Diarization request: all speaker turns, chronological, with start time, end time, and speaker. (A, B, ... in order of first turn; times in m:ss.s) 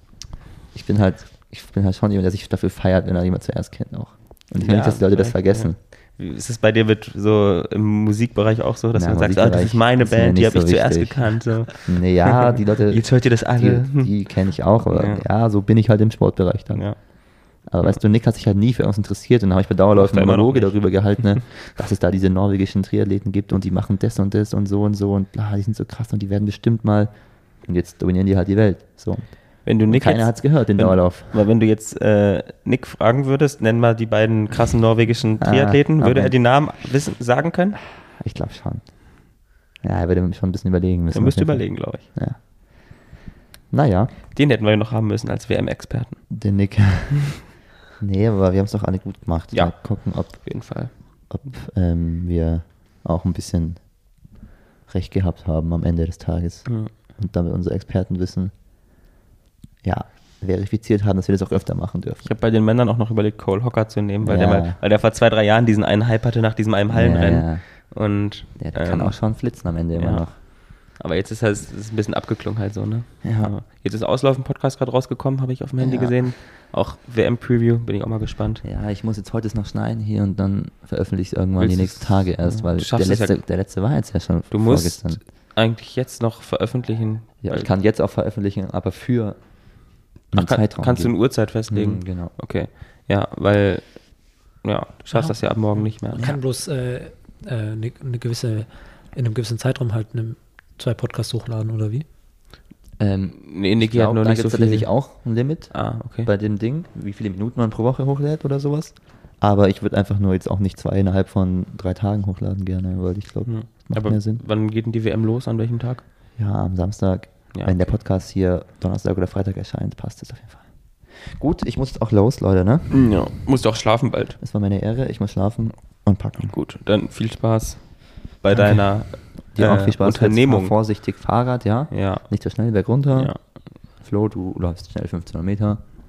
0:00.7-0:05.8 A
0:04.6-0:15.2 B
0:08.9-0:17.1 A
0:16.7-0:18.0 B
0:17.6-0:31.4 A
0:19.9-0:21.4 B
0:29.6-0:37.8 B
0:35.4-0:36.3 A
0:38.0-0:42.4 A
0:41.1-0:42.1 B
0:43.7-0:44.1 A
0:44.3-0:46.3 B
0:46.3-0:54.2 A
0:49.5-0:51.3 B
0:54.9-0:58.5 A
0:56.6-0:56.9 B
0:59.8-1:02.2 A
1:02.2-1:18.6 B
1:04.2-1:04.8 A
1:06.9-1:10.4 A
1:13.2-1:13.5 A
1:15.8-1:16.2 A
1:18.6-1:25.2 A
1:21.6-1:23.4 B
1:24.5-1:27.7 B
1:27.4-1:32.3 A
1:30.3-1:36.3 B
1:35.1-1:42.0 C
1:43.0-1:54.4 A
1:43.4-1:46.3 B
1:53.4-1:56.0 B
1:56.4-2:02.9 A
1:57.5-1:57.9 B
2:02.9-2:04.4 B
2:04.4-2:06.5 A
2:06.3-2:10.7 B
2:09.4-2:15.8 A
2:11.9-2:12.4 B
2:13.1-2:13.4 B